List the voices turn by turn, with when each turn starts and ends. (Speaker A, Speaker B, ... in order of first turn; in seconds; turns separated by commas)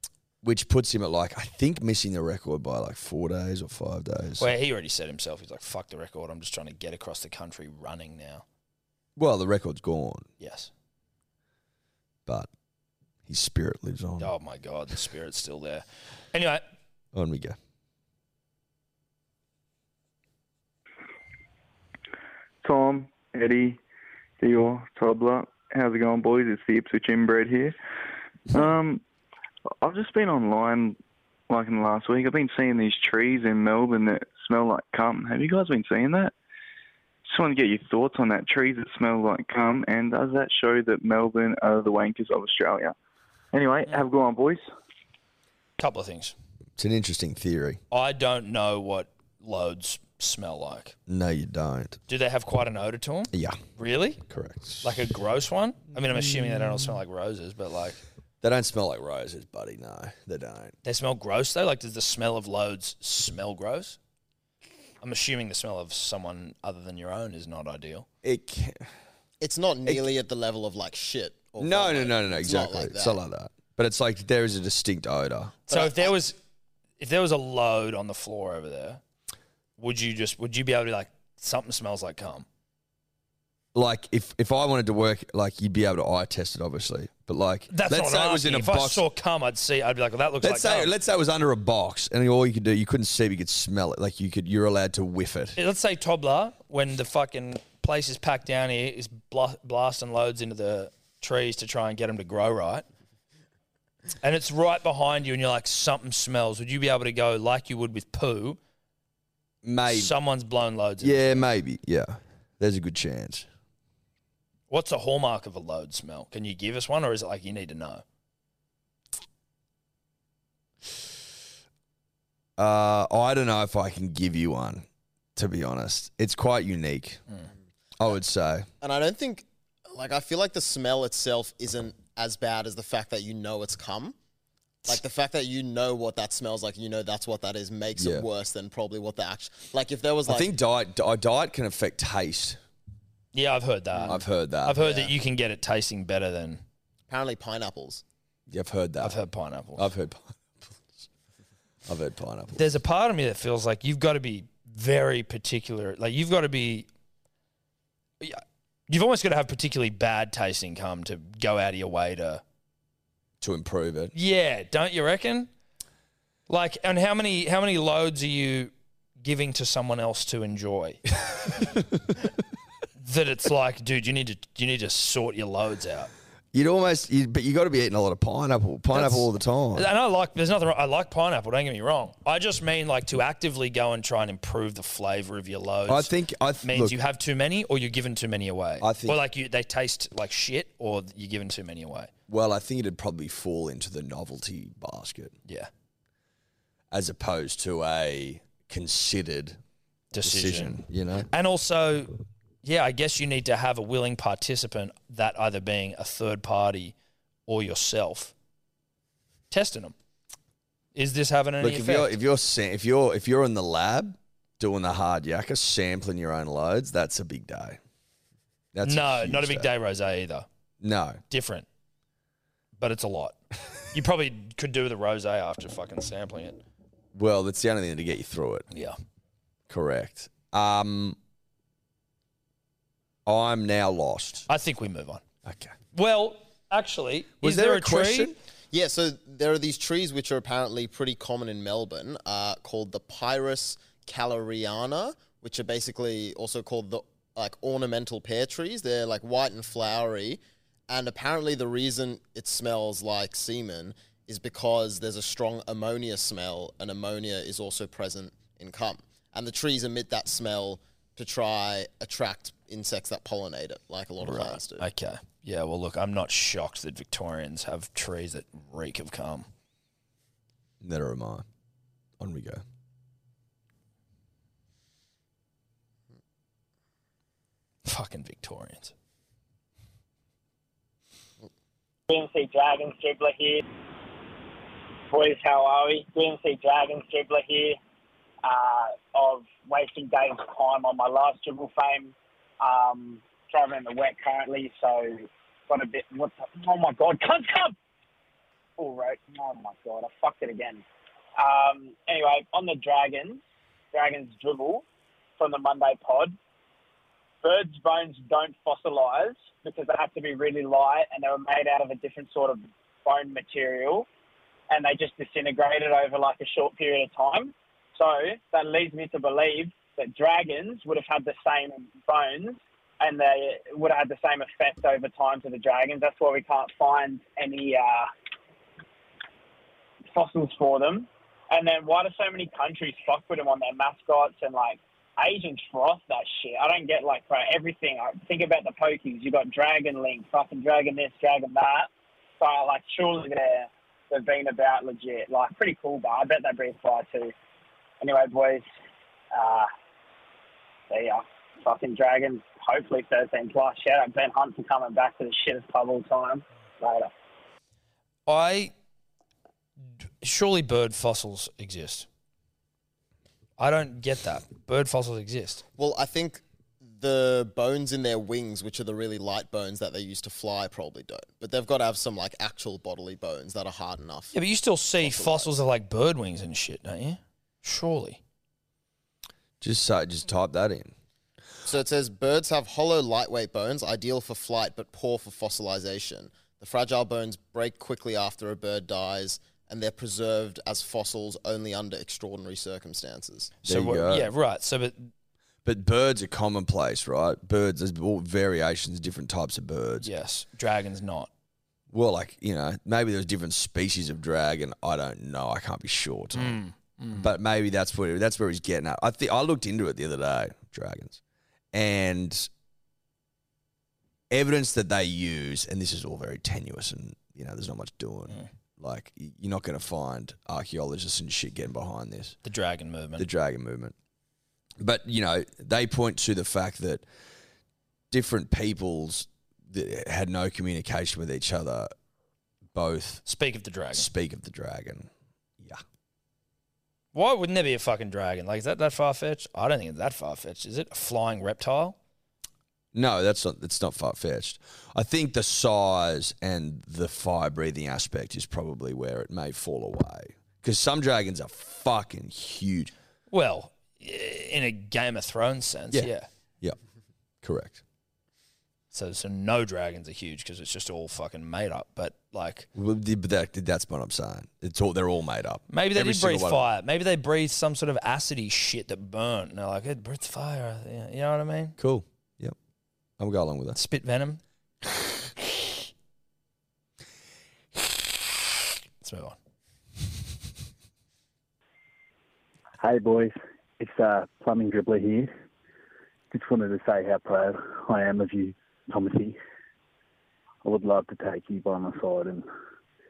Speaker A: 0.4-4.5, Speaker B: 4.4-8.4, Speaker A: 9.2-10.3, Speaker B: 10.4-10.7, Speaker A: 13.3-14.3, Speaker B: 14.2-16.6, Speaker A: 17.1-17.6, Speaker C: 22.6-23.8, Speaker C: 24.4-27.8, Speaker C: 28.5-29.0, Speaker C: 29.8-36.3, Speaker C: 37.3-42.9, Speaker C: 43.5-44.7, Speaker B: 45.8-46.4, Speaker A: 46.8-47.8, Speaker B: 47.9-51.0, Speaker A: 51.1-52.0, Speaker B: 52.1-54.2, Speaker A: 53.3-53.6, Speaker A: 54.3-55.0, Speaker B: 54.8-58.0, Speaker A: 58.4-60.8, Speaker B: 60.8-64.0, Speaker B: 65.0-68.1, Speaker A: 68.2-68.9, Speaker D: 69.4-73.2, Speaker A: 71.6-75.6, Speaker B: 75.7-76.4, Speaker D: 75.7-76.1, Speaker B: 77.0-79.0, Speaker B: 79.8-82.5, Speaker A: 83.7-89.0, Speaker B: 87.7-90.9, Speaker A: 90.4-95.6, Speaker B: 95.6-102.8, Speaker B: 104.2-108.6, Speaker A: 109.6-110.1, Speaker B: 109.9-111.5, Speaker A: 111.0-113.5, Speaker B: 114.7-118.0, Speaker A: 122.6-127.2, Speaker A: 128.0-128.7, Speaker D: 128.8-134.2, Speaker D: 134.9-140.5, Speaker A: 138.0-138.3, Speaker A: 140.3-142.6, Speaker B: 143.3-146.6, Speaker A: 144.0-144.9, Speaker D: 144.8-145.1, Speaker D: 147.1-148.0, Speaker A: 148.5-149.2, Speaker B: 149.0-149.9, Speaker A: 149.8-151.1, Speaker A: 151.9-152.6, Speaker B: 152.5-156.9, Speaker B: 158.2-162.4, Speaker A: 163.4-164.1, Speaker B: 164.1-165.5, Speaker B: 166.5-171.0, Speaker A: 171.5-171.8, Speaker B: 173.0-176.1, Speaker A: 176.5-179.9, Speaker B: 178.9-192.1, Speaker A: 185.9-187.0, Speaker A: 188.8-189.2, Speaker A: 192.3-195.3, Speaker A: 196.9-199.6, Speaker B: 200.1-206.9, Speaker A: 200.2-201.3, Speaker B: 207.5-208.3, Speaker B: 209.5-209.9, Speaker B: 210.9-212.2, Speaker A: 211.6-217.8, Speaker A: 218.7-219.7, Speaker B: 218.8-220.5, Speaker A: 220.8-221.2, Speaker B: 221.3-221.7, Speaker B: 222.8-223.4, Speaker B: 223.9-226.6, Speaker A: 227.1-228.7, Speaker B: 228.7-229.0, Speaker A: 229.7-231.2, Speaker A: 233.3-234.5, Speaker B: 234.5-235.2, Speaker A: 235.4-235.8, Speaker B: 235.9-238.3, Speaker A: 237.4-238.4, Speaker D: 238.7-264.8, Speaker B: 264.3-269.5, Speaker A: 270.8-271.4, Speaker A: 272.2-272.6, Speaker B: 277.9-278.9, Speaker E: 282.1-283.6, Speaker E: 285.1-287.8, Speaker E: 288.4-297.8, Speaker E: 298.8-300.8, Speaker E: 301.4-303.4, Speaker E: 303.9-304.8, Speaker E: 305.4-306.4, Speaker E: 307.4-314.1, Speaker E: 314.7-328.1, Speaker E: 330.1-341.9, Speaker E: 342.4-347.3, Speaker E: 348.0-348.7, Speaker E: 349.3-349.7, Speaker E: 350.9-357.1, Speaker B: 358.3-358.7, Speaker B: 360.2-362.1, Speaker B: 363.6-365.6, Speaker D: 365.8-374.3, Speaker B: 374.3-378.2, Speaker D: 375.0-375.6, Speaker A: 379.6-380.9, Speaker D: 381.7-393.5, Speaker B: 393.6-395.1, Speaker A: 393.6-394.3, Speaker A: 395.6-400.1, Speaker B: 400.0-401.3, Speaker A: 401.9-406.6, Speaker B: 406.3-407.3, Speaker A: 407.1-411.2, Speaker A: 411.7-412.5, Speaker A: 414.3-422.4, Speaker B: 422.4-423.3, Speaker A: 423.2-423.9, Speaker A: 424.8-427.1, Speaker A: 428.1-431.9, Speaker A: 432.7-433.2, Speaker B: 433.2-434.1, Speaker A: 433.9-435.1, Speaker B: 437.1-442.0, Speaker A: 442.9-452.9, Speaker B: 453.3-456.3, Speaker A: 457.4-457.8, Speaker B: 458.9-462.7, Speaker A: 462.7-466.7, Speaker B: 465.7-471.8, Speaker A: 471.8-472.6, Speaker A: 473.2-473.8, Speaker B: 473.7-474.4, Speaker B: 479.0-479.4, Speaker F: 482.8-485.3, Speaker F: 486.3-489.4, Speaker F: 490.6-492.5